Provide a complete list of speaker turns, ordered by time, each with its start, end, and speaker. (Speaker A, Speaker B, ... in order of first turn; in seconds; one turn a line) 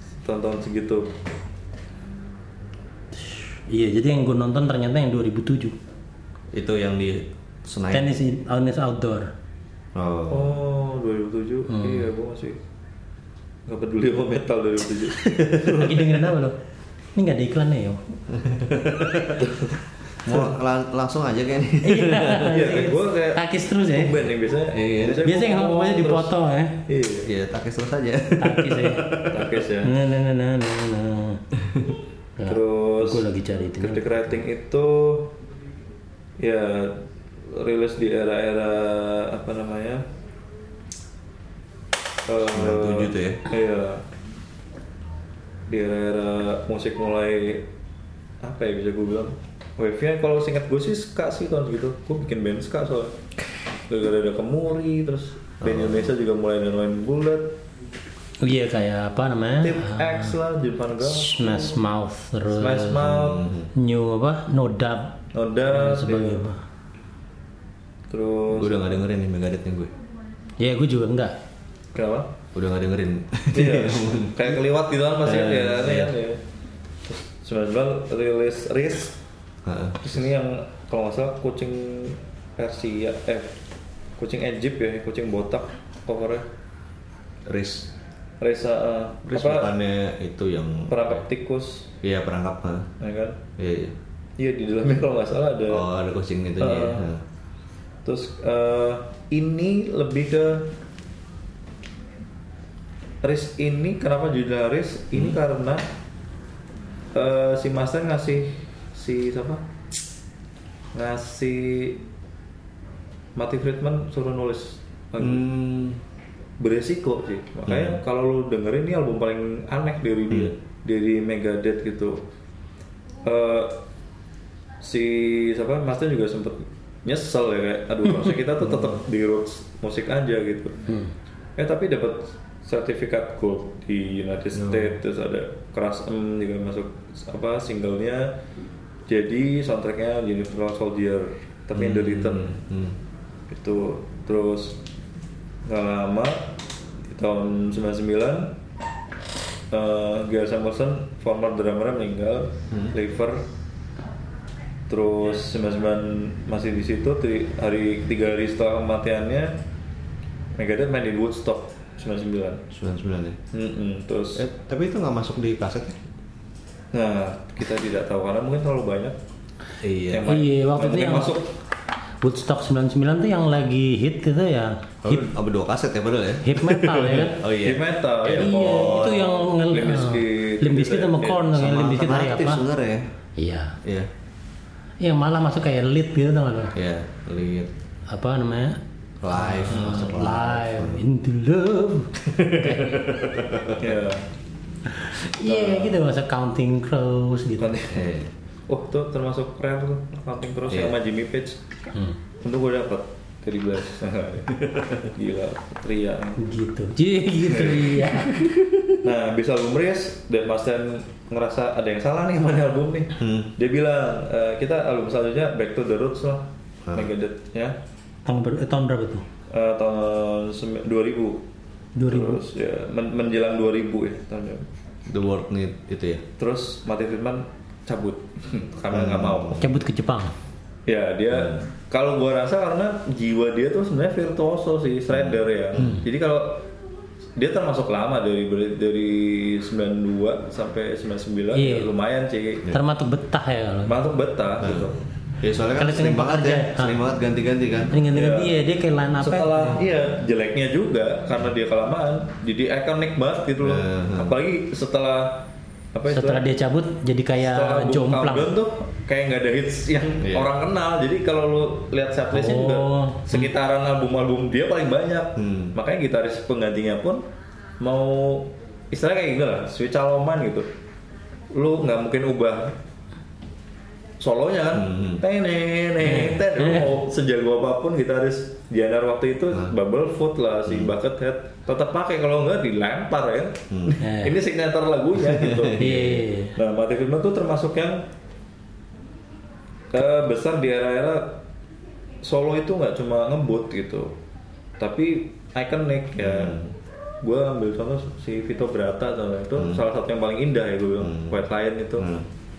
Speaker A: 0.2-1.1
Speaker B: 3.2-5.7
Speaker C: 6.5-8.1
Speaker B: 7.9-9.3
Speaker C: 9.9-10.5
Speaker A: 10.3-12.6
Speaker B: 11.7-12.0
Speaker A: 13.7-16.3
Speaker B: 15.5-16.6
Speaker B: 17.1-18.0
Speaker C: 18.3-19.5
Speaker A: 19.3-19.8
Speaker C: 20.2-22.6
Speaker B: 21.8-24.2
Speaker A: 22.4-26.3
Speaker C: 24.7-25.2
Speaker B: 25.2-26.8
Speaker A: 26.9-27.3
Speaker C: 27.2-29.6
Speaker B: 28.4-29.1
Speaker A: 29.3-29.9
Speaker B: 29.8-31.4
Speaker C: 31.6-31.9
Speaker B: 32.4-34.3
Speaker A: 32.5-33.2
Speaker A: 33.8-35.3
Speaker A: 36.4-40.0
Speaker A: 42.3-44.0
Speaker C: 42.5-43.4
Speaker A: 45.7-47.6
Speaker A: 48.4-53.1
Speaker A: 53.9-57.5
Speaker C: 55.6-56.1
Speaker B: 58.4-60.3
Speaker A: 59.6-61.7
Speaker B: 61.0-63.0
Speaker A: 62.5-63.4
Speaker C: 62.9-63.7
Speaker B: 63.7-66.6
Speaker A: 65.3-66.5
Speaker A: 68.1-69.0
Speaker C: 68.5-69.9
Speaker B: 70.6-71.3
Speaker A: 71.9-72.3
Speaker C: 72.5-74.6
Speaker A: 73.5-76.4
Speaker C: 75.2-76.1
Speaker A: 77.0-79.2
Speaker C: 79.6-80.2
Speaker A: 80.0-83.5
Speaker A: 84.2-86.5
Speaker C: 87.5-87.9
Speaker A: 88.4-89.7
Speaker C: 89.3-91.2
Speaker A: 90.9-91.9
Speaker C: 92.0-92.9
Speaker A: 93.0-93.4
Speaker C: 93.6-94.0
Speaker A: 94.4-95.8
Speaker C: 95.7-97.2
Speaker A: 96.6-97.0
Speaker A: 98.0-100.7
Speaker A: 103.2-105.8
Speaker A: 107.1-109.6
Speaker A: 110.9-112.0
Speaker A: 113.3-115.5
Speaker C: 115.2-116.0
Speaker A: 116.6-122.2
Speaker C: 117.7-118.0
Speaker A: 123.2-123.8
Speaker A: 124.8-130.8
Speaker A: 131.6-138.3
Speaker C: 134.5-134.9
Speaker A: 139.1-142.6
Speaker C: 141.7-143.0
Speaker A: 143.5-144.8
Speaker A: 145.7-146.5
Speaker A: 147.1-148.5
Speaker A: 149.7-153.4
Speaker A: 154.9-159.6
Speaker A: 160.6-162.6
Speaker C: 162.7-163.4
Speaker A: 163.5-164.4
Speaker C: 164.3-166.0
Speaker A: 166.9-169.2
Speaker C: 169.8-170.3
Speaker A: 170.1-171.5
Speaker B: 170.2-171.4
Speaker B: 172.2-175.2
Speaker C: 175.0-179.2
Speaker B: 176.4-177.4
Speaker A: 177.5-181.5
Speaker B: 178.3-182.6
Speaker C: 181.5-183.1
Speaker B: 183.4-183.8
Speaker C: 183.8-184.1
Speaker B: 185.0-186.7
Speaker C: 186.7-187.7
Speaker B: 188.1-188.8
Speaker C: 189.2-191.0
Speaker B: 189.3-193.1
Speaker A: 189.7-190.0
Speaker C: 192.4-193.8
Speaker A: 193.8-194.2
Speaker B: 194.9-197.8
Speaker A: 195.4-196.0
Speaker A: 197.6-198.1
Speaker C: 197.9-198.3
Speaker A: 198.7-201.6
Speaker C: 200.7-200.9
Speaker A: 202.4-206.4
Speaker B: 206.4-208.5
Speaker A: 207.5-208.3
Speaker A: 209.0-217.7
Speaker C: 213.2-213.5
Speaker B: 218.2-219.2
Speaker A: 219.5-221.4
Speaker B: 221.9-222.4
Speaker A: 222.1-224.7
Speaker C: 225.1-226.2
Speaker A: 226.4-229.6
Speaker C: 228.9-229.7
Speaker B: 229.6-230.3
Speaker A: 230.8-236.7
Speaker C: 231.3-231.6
Speaker C: 235.1-236.0
Speaker A: 237.4-242.7
Speaker B: 241.5-241.9
Speaker B: 242.7-243.9
Speaker A: 243.8-245.0
Speaker C: 244.6-248.0
Speaker B: 245.8-247.0
Speaker B: 247.9-249.8
Speaker A: 248.1-248.6
Speaker A: 249.2-256.4
Speaker C: 253.6-254.4
Speaker B: 256.1-258.5
Speaker A: 257.4-267.2
Speaker C: 260.2-260.5
Speaker B: 262.3-263.5
Speaker C: 265.4-265.7
Speaker A: 267.8-270.7
Speaker A: 271.5-272.7
Speaker A: 274.2-285.9
Speaker C: 274.7-275.2
Speaker B: 276.0-276.9
Speaker C: 280.6-280.9
Speaker C: 283.7-284.0
Speaker B: 284.0-284.4
Speaker C: 285.2-286.2
Speaker B: 285.8-286.5
Speaker A: 286.5-288.0
Speaker A: 289.9-291.4
Speaker A: 292.2-294.1
Speaker A: 294.8-296.6
Speaker C: 296.2-296.7
Speaker A: 297.2-302.1
Speaker C: 299.6-299.8
Speaker C: 301.0-301.4
Speaker C: 302.0-302.2